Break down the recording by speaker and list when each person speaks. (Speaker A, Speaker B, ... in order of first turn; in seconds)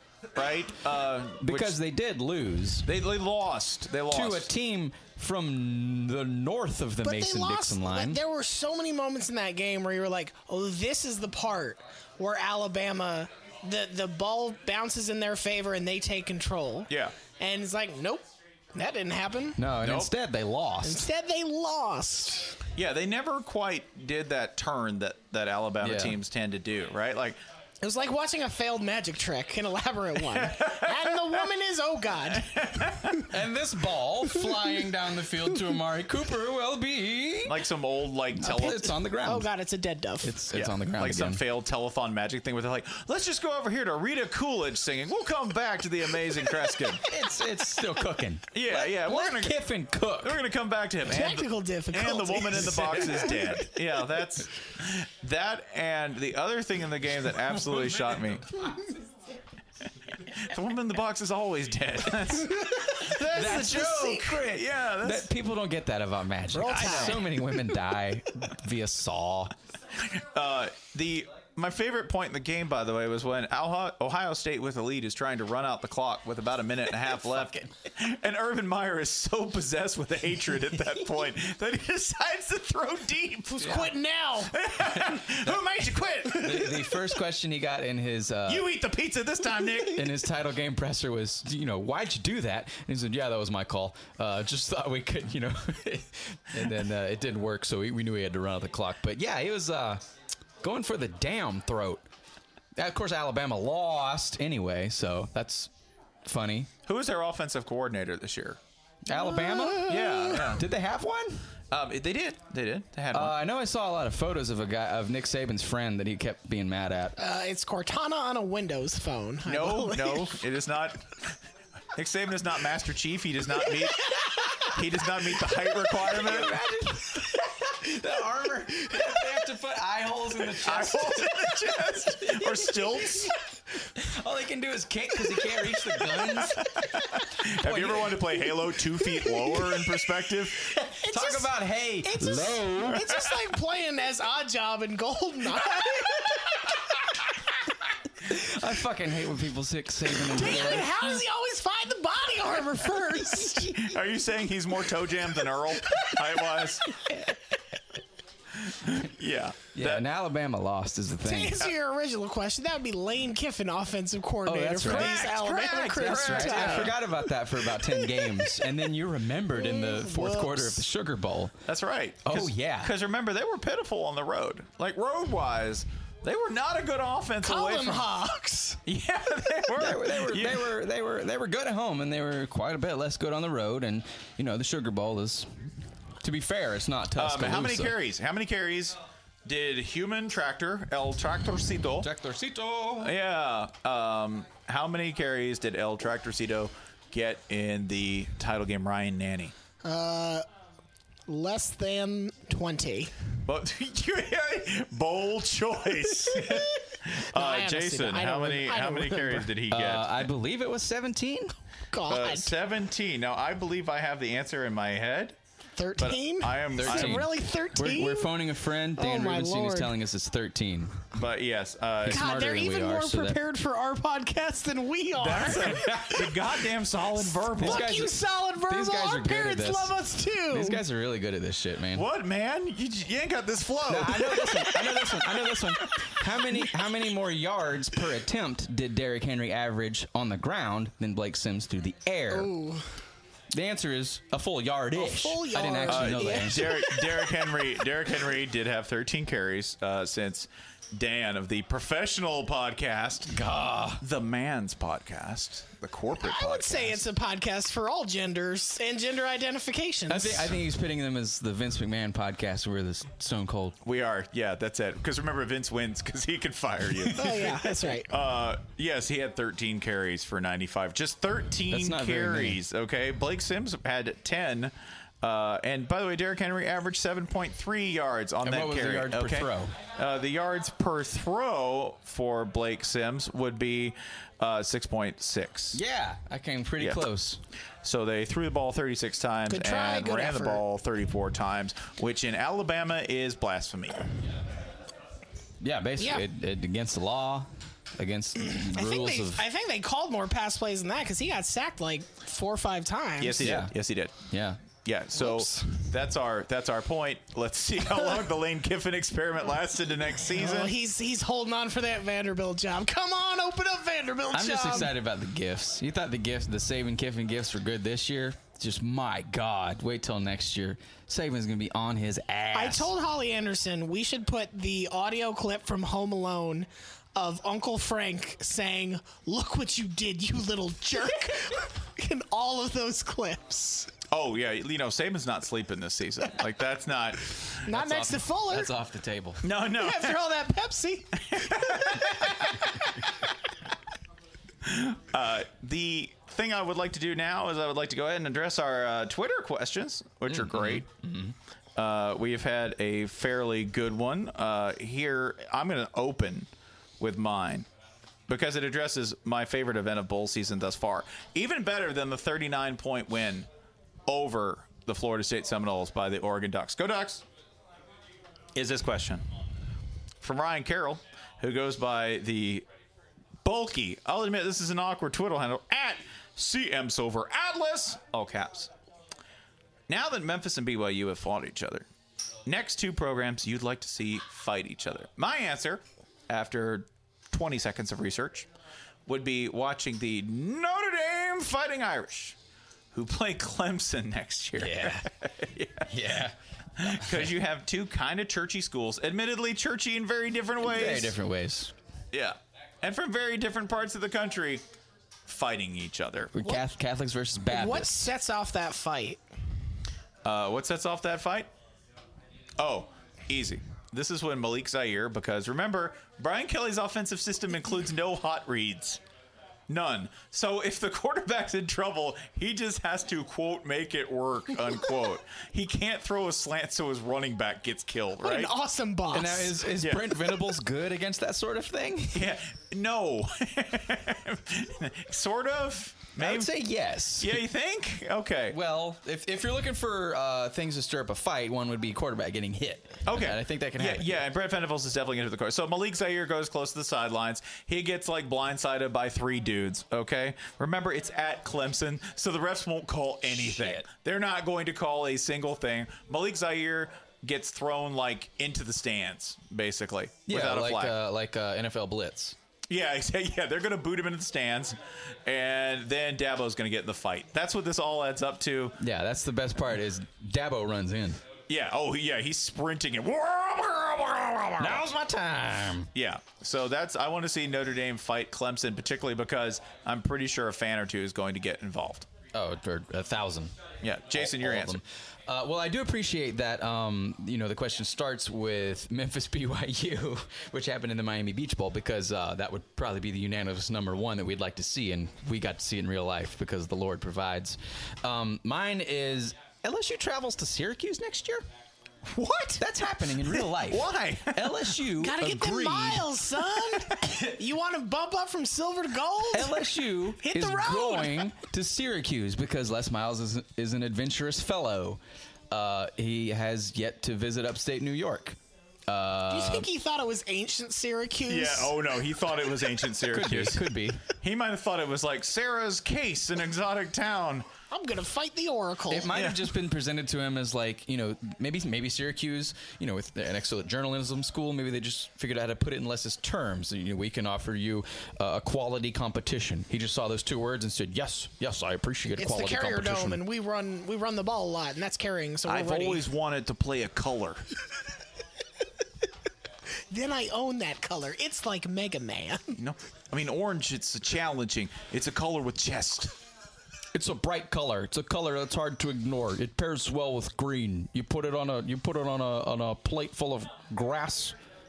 Speaker A: 0.3-1.8, 2.9-4.5, 16.9-17.1, 19.8-20.1, 22.8-27.4, 30.3-31.1, 32.3-33.3, 37.5-39.0, 40.5-47.1, 48.5-49.6, 50.2-58.5, 60.4-65.3, 66.8-67.2, 70.2-83.9, 84.5-86.9, 88.5-90.1, 106.9-108.6, 109.8-110.6, 111.7-113.3, 119.5-121.3, 122.0-126.5, 130.6-133.3, 136.8-140.7, 153.6-157.0, 158.7-160.0, 164.8-167.0, 171.7-178.1, 178.9-180.7, 187.2-192.1, 193.0-199.5, 203.5-210.3, 212.1-215.4, 216.0-217.3, 221.2-222.2, 225.2-227.9, 231.9-235.0, 245.9-253.3, 254.0-257.0, 263.8-285.8, 287.8-294.1, 303.2-304.3, 304.8-310.7, 334.1-337.6, 339.4-340.2, 341.3-342.7, 344.6-350.9, 351.8-356.5, 357.0-357.7, 358.3-363.5, 364.1-367.2, 368.6-369.2, 370.2-372.6, 373.4-378.7, 379.9-381.9, 382.5-388.5, 389.1-392.4, 392.9-395.9, 396.8-401.1, 402.1-404.6, 405.3-406.3, 410.2-411.5, 412.6-419.0, 419.7-428.5, 429.8-430.2, 432.1-436.5, 437.2-438.6, 443.1-460.9, 462.7-468.8, 471.5-474.9, 475.9-482.1, 483.8-484.8, 502.1-502.6, 503.4-504.7, 521.3-523.6, 524.2-527.5, 529.1-529.5, 545.5-547.4, 552.6-556.1
Speaker B: 1.4-2.9, 4.1-8.2, 19.6-21.1, 25.8-26.2, 33.3-37.6, 38.4-39.5, 40.2-41.4, 47.0-50.4, 57.5-58.2, 63.3-69.5, 85.0-85.6, 86.3-88.7, 89.9-100.0, 100.6-102.0, 102.8-105.7, 106.2-106.7, 109.1-111.5, 113.1-117.2, 126.1-131.6, 132.2-133.3, 133.9-136.7, 137.6-138.4, 140.9-142.9, 148.3-150.9, 159.7-161.7, 164.5-165.3, 165.9-171.6, 172.2-172.9, 179.8-185.5, 186.2-187.9, 192.0-193.1, 209.7-211.5, 216.8-221.1, 222.0-223.4, 225.6-226.1, 227.6-229.9, 230.5-232.1, 233.9-242.5, 243.5-246.8, 253.3-254.0, 260.1-263.8, 271.7-272.6, 278.4-279.8, 285.7-287.4, 295.6-299.4, 303.4-303.7, 304.3-304.6, 314.3-322.9, 337.7-339.4, 350.3-351.3, 394.6-395.1, 395.9-396.4, 397.0-397.3, 400.6-401.7, 406.3-408.0, 429.1-432.3, 436.2-437.4, 438.5-444.2, 453.4-453.8, 460.3-462.4, 468.8-471.2, 474.6-475.9, 482.3-483.5, 484.1-501.5, 502.6-506.2, 507.0-507.3, 509.3-515.0, 515.5-519.7, 523.1-524.0, 528.9-543.2, 556.9-564.4
Speaker C: 7.0-19.6, 20.8-22.6, 27.8-32.5, 39.2-40.4, 51.1-53.3, 66.5-67.2, 83.6-84.5, 109.1-110.2, 117.2-120.3, 141.0-141.5, 142.0-146.1, 150.4-153.8, 161.2-167.0, 169.6-170.8, 177.4-178.8, 199.8-200.4, 201.3-203.1, 206.3-206.7, 207.3-209.5, 211.9-212.5, 215.8-218.3, 219.0-219.9, 222.1-226.0, 227.2-230.8, 242.3-242.8, 244.9-247.1, 256.2-260.6, 267.1-268.1, 289.5-290.6, 296.0-296.2, 298.4-303.4, 305.2-305.6, 310.3-314.9, 322.5-333.9, 337.7-338.7, 339.7-341.1, 407.5-409.2, 428.2-429.6, 505.0-509.6, 510.2-511.3, 519.3-521.7, 527.7-529.1, 542.2-546.0, 549.9-552.6